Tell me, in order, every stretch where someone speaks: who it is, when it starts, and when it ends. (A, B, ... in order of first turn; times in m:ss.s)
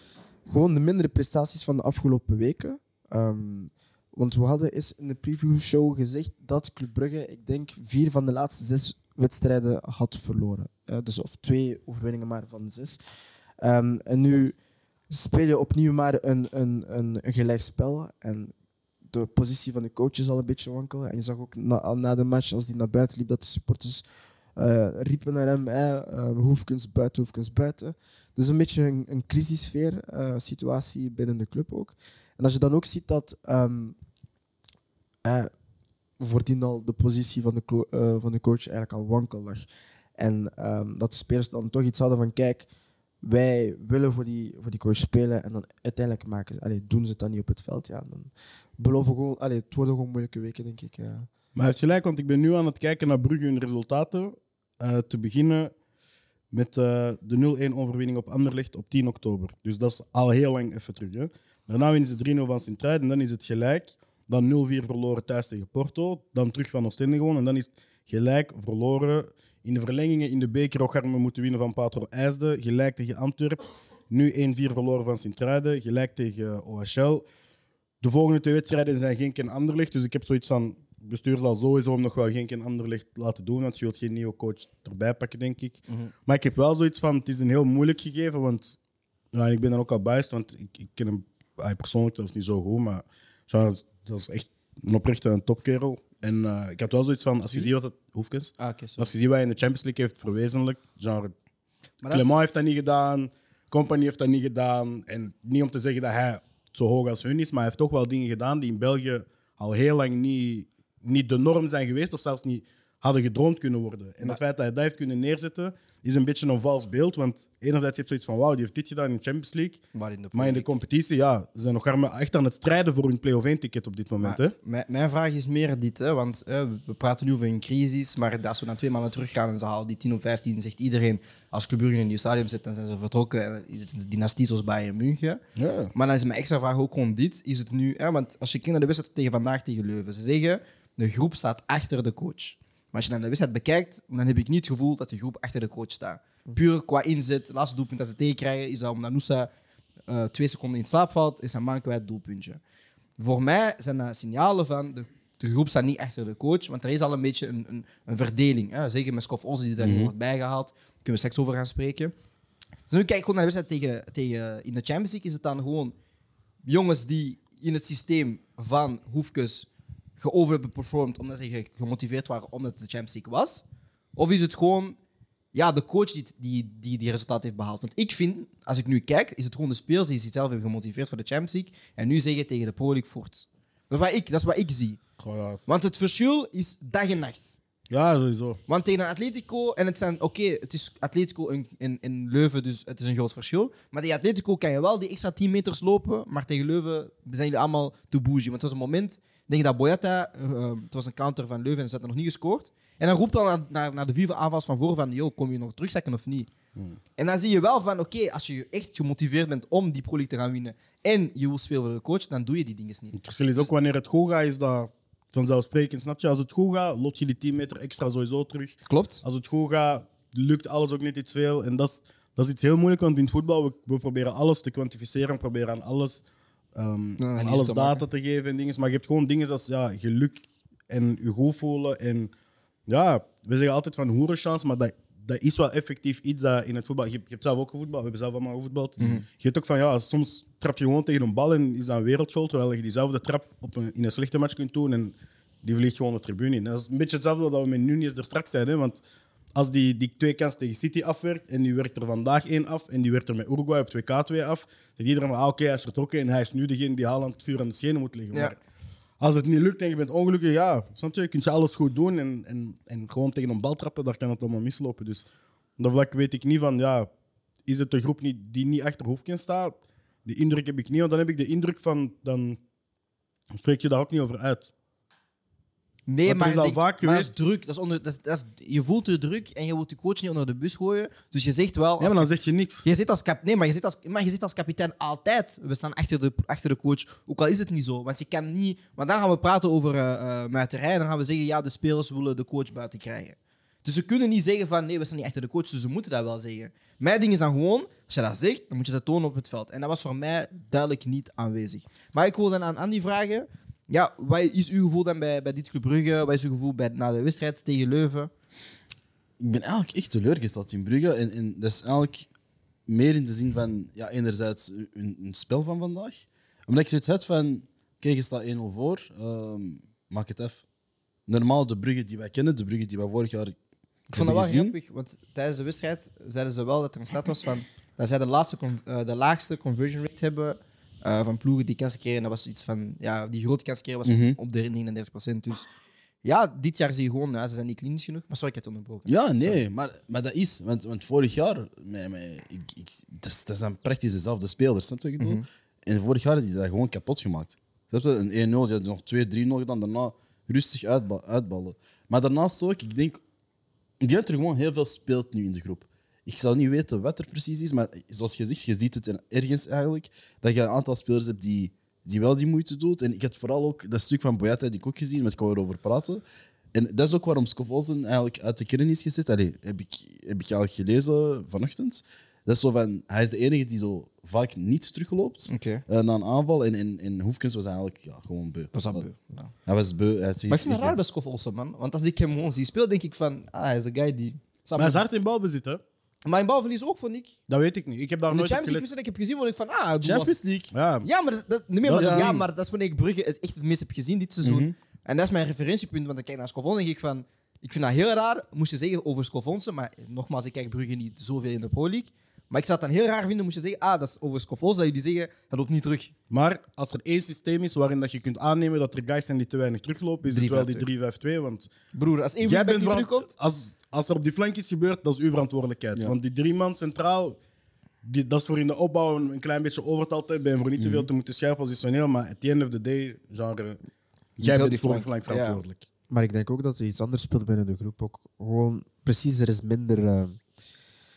0:00.4-0:13.0 A
0:13.6-0:14.6 A
0:15.1-0:18.5 A
0:19.1-0:24.0 A
0:24.6-0:34.0 A
0:35.2-0:35.5 A
0:36.2-0:42.7 A
0:43.2-0:51.3 A
0:51.5-0:55.7 B
0:56.5-1:17.2 B
1:18.0-1:28.8 B
1:29.3-1:41.3 B
1:38.6-1:39.1 C
1:42.0-1:42.3 C
1:42.1-1:59.8 B
1:59.9-2:00.7 C
2:00.3-2:04.5 B
2:04.2-2:15.4 C
2:15.6-2:15.9 B
2:15.9-2:29.5 C
2:30.1-2:32.6 C
2:33.2-2:42.1 C
2:39.8-2:40.1 D
2:42.9-2:45.9 C
2:46.6-2:53.6 C
2:54.2-2:55.0 C
2:55.5-3:05.0 C
3:05.2-3:05.6 B
3:05.6-3:07.6 C
3:07.9-3:08.6 B
3:08.7-3:26.5 C
3:27.2-3:33.7 C
3:33.2-3:46.2 B
3:38.9-3:39.2 C
3:46.7-3:52.3 B
3:47.2-3:48.0 C
3:52.9-4:09.0 B
4:09.5-4:18.6 B
4:19.2-4:25.3 B
4:25.8-4:27.1 B
4:27.6-4:32.6 B
4:33.6-4:34.7 B
4:36.1-4:42.3 C
4:36.2-4:37.3 B
4:42.0-4:42.8 B
4:42.8-5:08.3 C
5:09.4-5:12.3 D
5:12.9-5:20.6 D
5:21.3-5:23.6 D
5:24.1-5:35.7 C
5:24.1-5:24.7 D
5:34.0-5:34.4 D
5:36.2-5:39.6 C
5:39.1-5:53.2 D
5:45.2-5:45.4 C
5:54.0-6:06.2 D
6:06.7-6:19.0 D
6:15.5-6:15.8 C
6:18.7-6:19.5 C
6:19.6-6:21.0 D
6:20.5-6:25.0 C
6:24.8-6:25.8 B
6:26.2-6:27.3 C
6:27.5-6:28.8 B
6:28.3-6:30.4 C
6:30.0-6:30.7 D
6:30.7-6:31.1 B
6:31.0-6:46.1 C
6:31.8-6:32.4 B
6:32.0-6:32.4 D
6:34.4-6:34.7 D
6:46.3-6:51.7 B
6:50.3-6:50.8 C
6:51.9-6:53.3 C
6:52.4-6:57.4 B
6:58.0-7:03.8 B
7:00.8-7:01.1 D
7:04.4-7:05.8 B
7:04.4-7:05.6 C
7:06.1-7:10.4 A